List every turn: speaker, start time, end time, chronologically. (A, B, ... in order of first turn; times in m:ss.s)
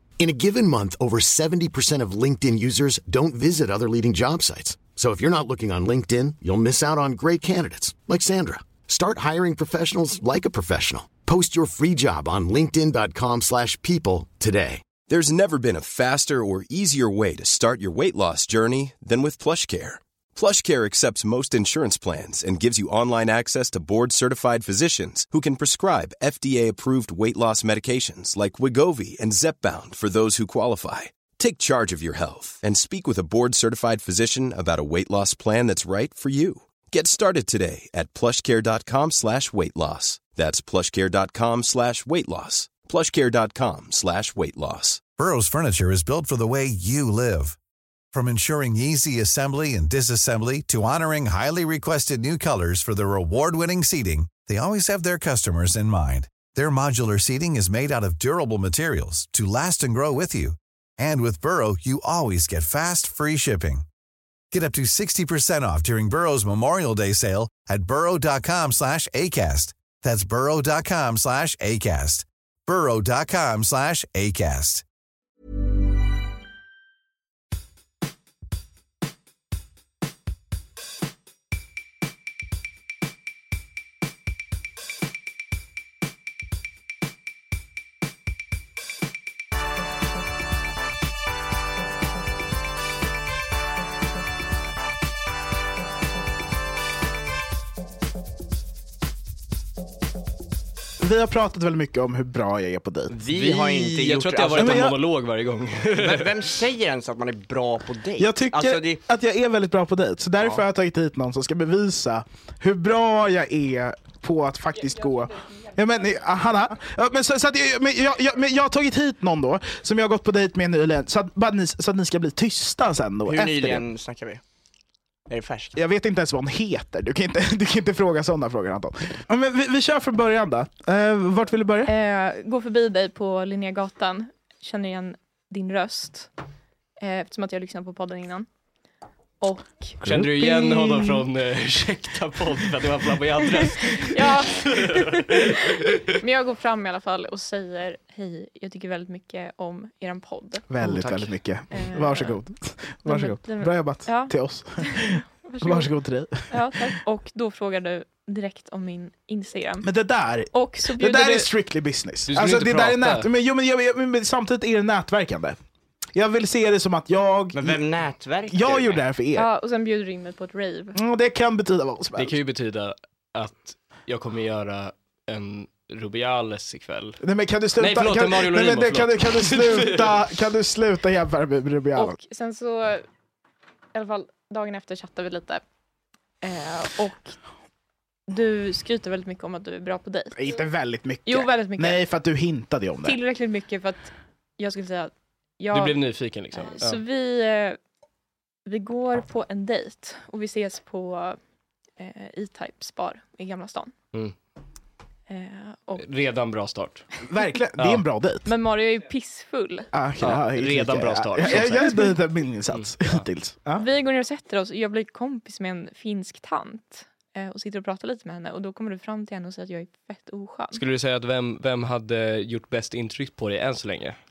0:00.2-0:14.8 A
0:15.0-0:45.1 B
0:45.2-0:47.6 C
0:48.1-1:03.9 C
1:04.5-1:14.8 C
1:41.0-1:43.1 D
1:43.1-1:44.9 E
1:43.3-1:46.3 F
1:44.5-1:45.0 D
1:46.0-1:49.0 E
1:48.2-2:03.8 D
1:50.4-1:50.6 E
2:03.2-2:04.4 E
2:05.3-2:05.7 E
2:05.7-2:11.9 D
2:11.8-2:16.3 G
2:17.0-2:18.5 G
2:19.4-2:20.2 G
2:20.0-2:21.0 D
2:20.0-2:26.0 F
2:23.8-2:25.6 G
2:26.2-2:30.7 G
2:30.7-2:37.0 D
2:30.8-2:31.4 F
2:31.7-2:32.4 G
2:33.0-2:35.9 G
2:36.5-2:39.9 G
2:39.8-2:45.6 D
2:40.5-2:41.5 G
2:42.3-2:43.3 F
2:46.1-2:47.8 D
2:47.5-2:49.0 E
2:48.4-2:49.5 D
2:49.4-2:51.0 G
2:50.9-2:52.4 D
2:52.2-2:57.2 F
2:57.2-3:02.2 D
2:57.8-3:00.1 F
3:01.9-3:03.1 G
3:03.9-3:05.6 G
3:06.4-3:07.4 G
3:08.3-3:10.6 G
3:10.3-3:13.2 D
3:11.2-3:12.0 G
3:13.0-3:16.0 G
3:15.7-3:17.0 F
3:16.5-3:17.8 G
3:18.7-3:21.4 G
3:22.0-3:23.9 G
3:25.3-3:26.0 G
3:26.0-3:27.0 F
3:27.2-3:28.5 D
3:27.8-3:28.0 F
3:28.4-3:29.9 G
3:29.9-3:33.8 D
3:30.2-3:31.9 F
3:31.5-3:32.2 G
3:32.7-3:33.2 F
3:33.8-3:40.8 G
3:40.7-3:44.2 F